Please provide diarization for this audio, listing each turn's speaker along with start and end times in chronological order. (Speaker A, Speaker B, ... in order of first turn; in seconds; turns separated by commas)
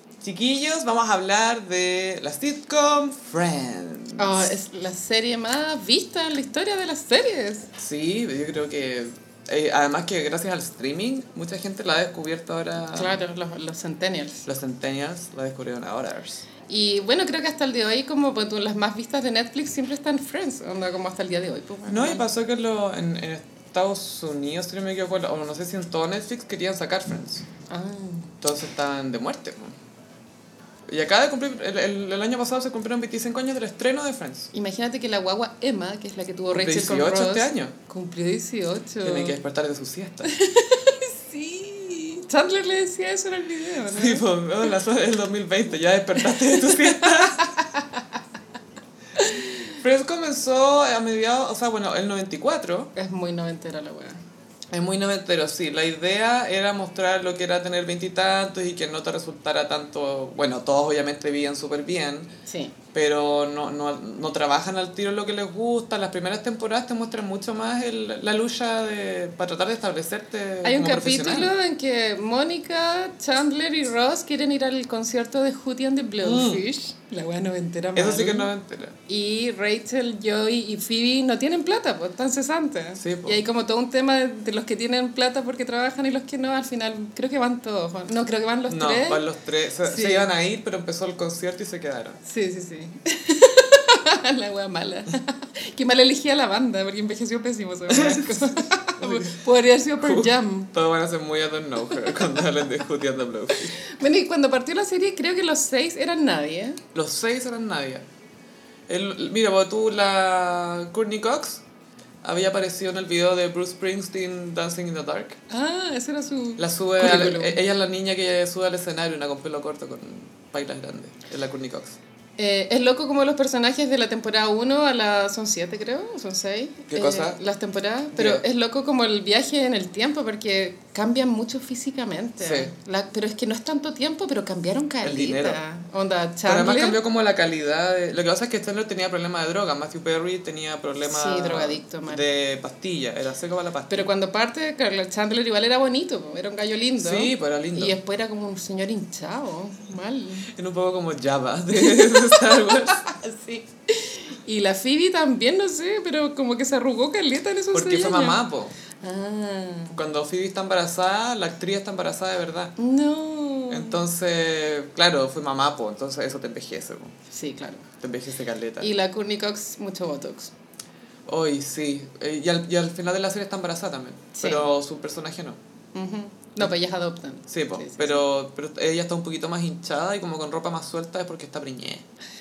Speaker A: 0.2-4.5, Speaker B: 4.2-7.7, Speaker A: 7.8-13.2, Speaker B: 12.9-14.4, Speaker A: 14.4-16.4, Speaker B: 16.7-22.2, Speaker A: 21.9-27.5, Speaker B: 27.7-28.3, Speaker A: 28.4-29.8, Speaker A: 30.9-34.5, Speaker B: 34.5-39.4, Speaker A: 36.5-37.8, Speaker A: 39.0-40.3, Speaker B: 40.3-44.2, Speaker A: 43.9-47.5, Speaker B: 46.5-48.0, Speaker A: 49.7-52.9, Speaker B: 52.9-54.2, Speaker A: 54.7-62.3, Speaker B: 62.5-62.8, Speaker A: 62.9-71.5, Speaker B: 70.6-78.5, Speaker A: 76.2-76.6, Speaker A: 77.9-79.0, Speaker B: 79.1-89.2, Speaker A: 83.0-83.4, Speaker A: 88.7-92.2, Speaker B: 89.8-90.3, Speaker B: 92.2-100.7, Speaker A: 97.9-99.4, Speaker A: 100.0-103.8, Speaker B: 102.0-102.3, Speaker B: 103.8-106.8, Speaker A: 106.9-108.0, Speaker A: 108.9-111.6, Speaker A: 112.2-115.4, Speaker B: 115.5-117.6, Speaker A: 116.6-122.0, Speaker B: 122.4-137.0, Speaker A: 126.9-127.4, Speaker A: 128.1-128.4, Speaker A: 132.4-132.7, Speaker A: 135.0-135.6, Speaker A: 136.4-144.1, Speaker B: 141.0-142.2, Speaker B: 143.9-150.5, Speaker A: 147.0-148.0, Speaker A: 150.5-153.0, Speaker B: 151.7-158.4, Speaker A: 157.7-158.7, Speaker B: 159.0-160.0, Speaker A: 159.9-162.7, Speaker B: 162.8-164.0, Speaker A: 163.7-167.1, Speaker B: 167.3-167.9, Speaker A: 168.0-168.9, Speaker B: 168.8-170.5, Speaker A: 171.3-175.6, Speaker B: 174.4-174.7, Speaker B: 175.9-178.2, Speaker A: 177.5-182.0